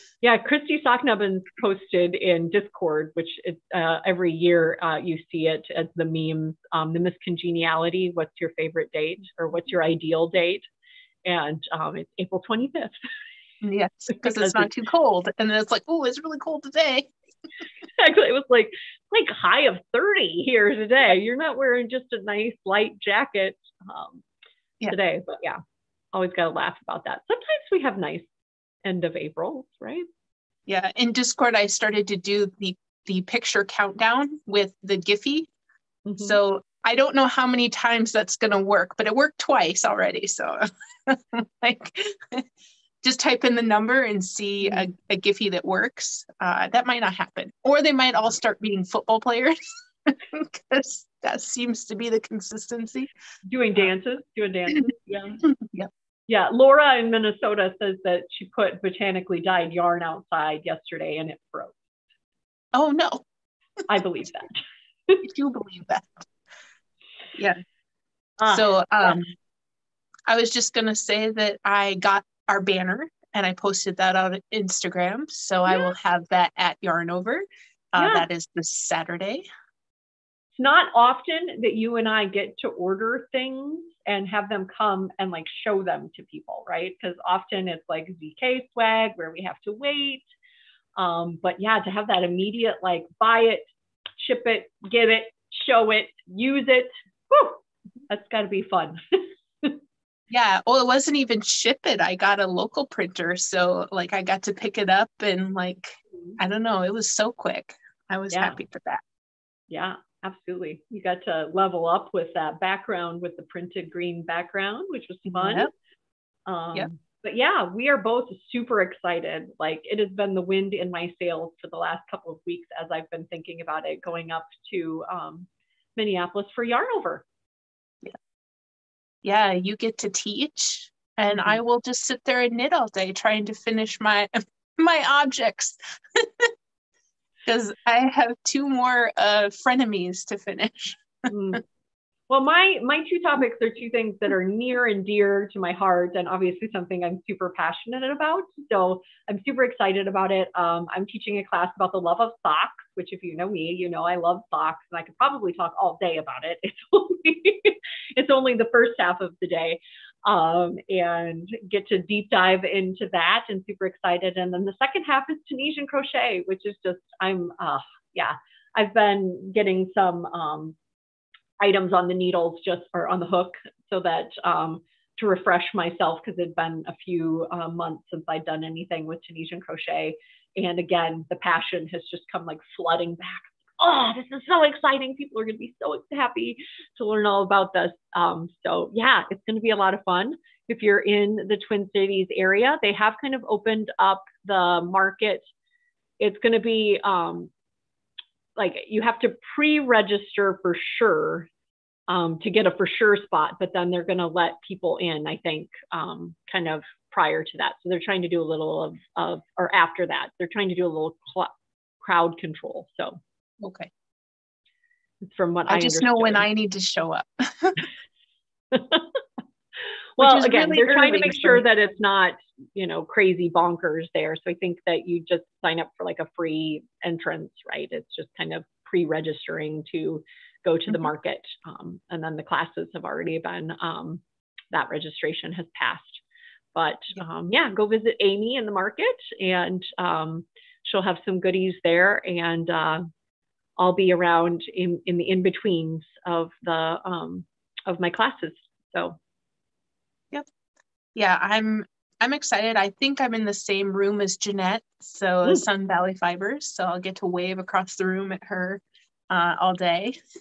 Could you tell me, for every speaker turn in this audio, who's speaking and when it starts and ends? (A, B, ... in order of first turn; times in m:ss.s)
0:00.2-0:10.6 A
0:11.2-0:12.9 A
0:13.6-0:17.1 B
0:14.1-0:14.7 A
0:18.0-0:24.2 A
0:24.9-0:25.6 A
0:26.1-0:28.3 A
0:28.8-0:30.0 A
0:30.7-0:35.5 B
0:36.0-0:36.4 A
0:36.2-0:42.5 B
0:43.0-0:53.1 B
0:44.6-0:44.9 A
0:53.5-0:55.4 A
0:55.4-0:55.9 B
0:56.3-1:01.8 A
1:02.7-1:03.2 B
1:03.9-1:05.2 A
1:05.2-1:06.3 B
1:07.3-1:07.6 B
1:08.4-1:08.7 A
1:08.5-1:09.3 B
1:10.3-1:19.4 B
1:18.0-1:18.3 A
1:20.6-1:30.2 A
1:31.0-1:33.6 A
1:34.2-1:39.8 A
1:40.3-1:49.0 B
1:48.3-1:48.6 A
1:49.7-1:55.7 A
1:55.3-1:55.7 B
1:56.5-2:07.2 A
2:09.2-2:16.5 B
2:11.3-2:11.6 A
2:17.4-2:21.1 B
2:21.3-2:21.6 A
2:22.3-2:50.8 A
2:51.6-3:15.4 A
3:16.2-3:17.5 A
3:18.6-3:21.5 A
3:22.1-3:33.2 A
3:33.6-3:33.9 B
3:35.3-3:36.4 A
3:35.7-3:37.8 B
3:38.7-3:39.2 A
3:40.2-3:54.2 A
3:40.2-3:41.6 B
3:54.7-3:56.2 A
3:56.7-4:03.0 A
4:03.8-4:09.2 A
4:11.1-4:20.2 B